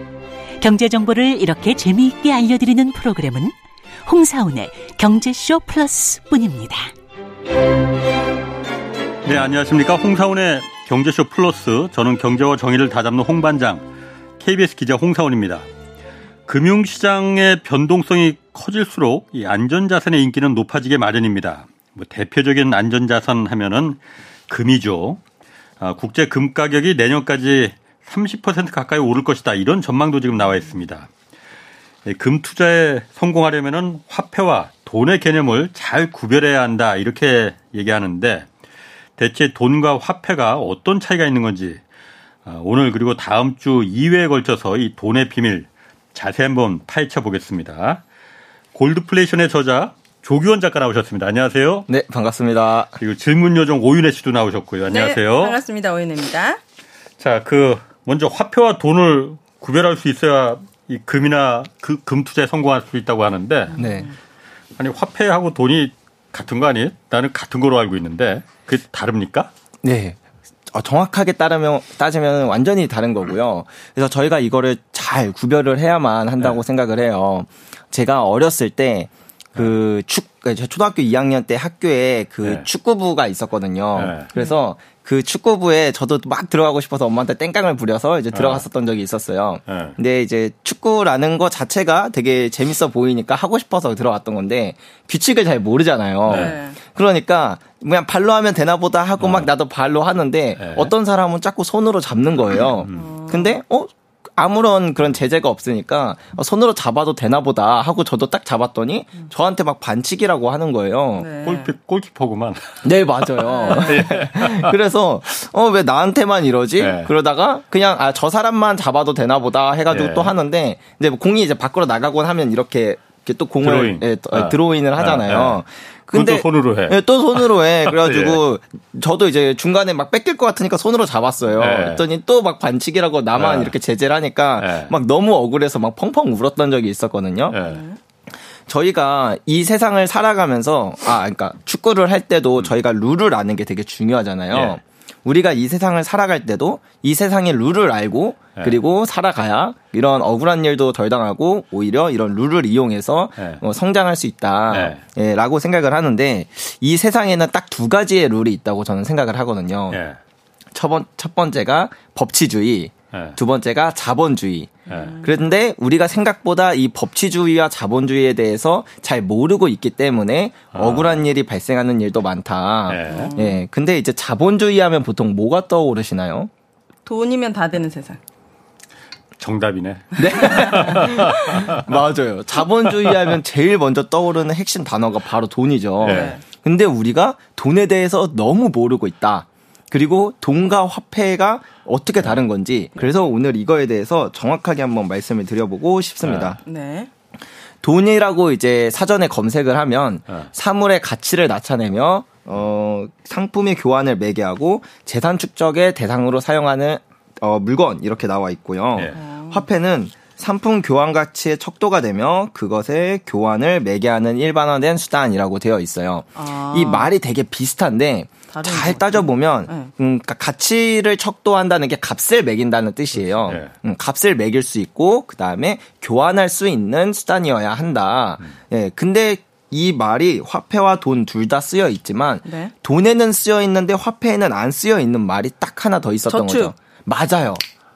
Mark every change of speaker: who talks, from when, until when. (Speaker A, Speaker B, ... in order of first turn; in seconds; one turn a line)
Speaker A: 0.6-6.9
Speaker B: 9.2-13.8
Speaker B: 14.4-15.7
Speaker B: 16.5-25.2
Speaker B: 25.8-31.1
Speaker B: 32.0-38.5
Speaker B: 39.2-41.8
Speaker B: 42.4-48.0
Speaker B: 48.7-51.9
Speaker C: 51.9-52.9
Speaker B: 53.0-55.6
Speaker D: 54.9-56.6
Speaker B: 57.2-63.7
Speaker D: 63.7-64.1
Speaker C: 63.8-64.1
Speaker B: 64.8-69.5
Speaker C: 69.8-70.2
Speaker C: 70.7-111.3
Speaker B: 84.0-84.3
Speaker B: 88.3-88.6
Speaker B: 89.7-90.0
Speaker B: 96.3-96.5
Speaker D: 96.3-96.8
Speaker B: 99.2-99.5
Speaker B: 100.6-100.9
Speaker B: 102.8-103.1
Speaker D: 102.9-103.6
Speaker D: 111.1-111.7
Speaker B: 111.4-114.7
Speaker C: 112.8-137.5
Speaker D: 113.4-114.1
Speaker B: 116.8-117.1
Speaker B: 119.9-120.3
Speaker B: 123.6-128.4
Speaker B: 131.6-132.0
Speaker B: 133.3-133.7
Speaker B: 134.6-134.9
Speaker B: 137.5-137.8
Speaker D: 137.6-138.0
Speaker C: 138.7-160.0
Speaker B: 144.5-144.8
Speaker B: 154.7-155.0
Speaker B: 159.9-160.2
Speaker C: 160.7-176.5
Speaker B: 163.1-163.4
Speaker D: 164.9-165.5
Speaker B: 164.9-165.1
Speaker B: 170.7-171.2
Speaker B: 172.9-173.3
Speaker D: 173.1-173.6
Speaker D: 177.1-178.2
Speaker B: 179.4-181.9
Speaker C: 180.2-196.6
Speaker D: 180.2-181.6
Speaker B: 186.0-186.3
Speaker D: 186.1-186.4
Speaker B: 196.2-196.6
Speaker D: 196.6-197.1
Speaker C: 197.8-237.6
Speaker D: 209.1-209.6
Speaker D: 216.3-217.1
Speaker D: 218.5-219.9
Speaker B: 223.4-223.7
Speaker D: 232.4-232.7
Speaker D: 236.3-236.7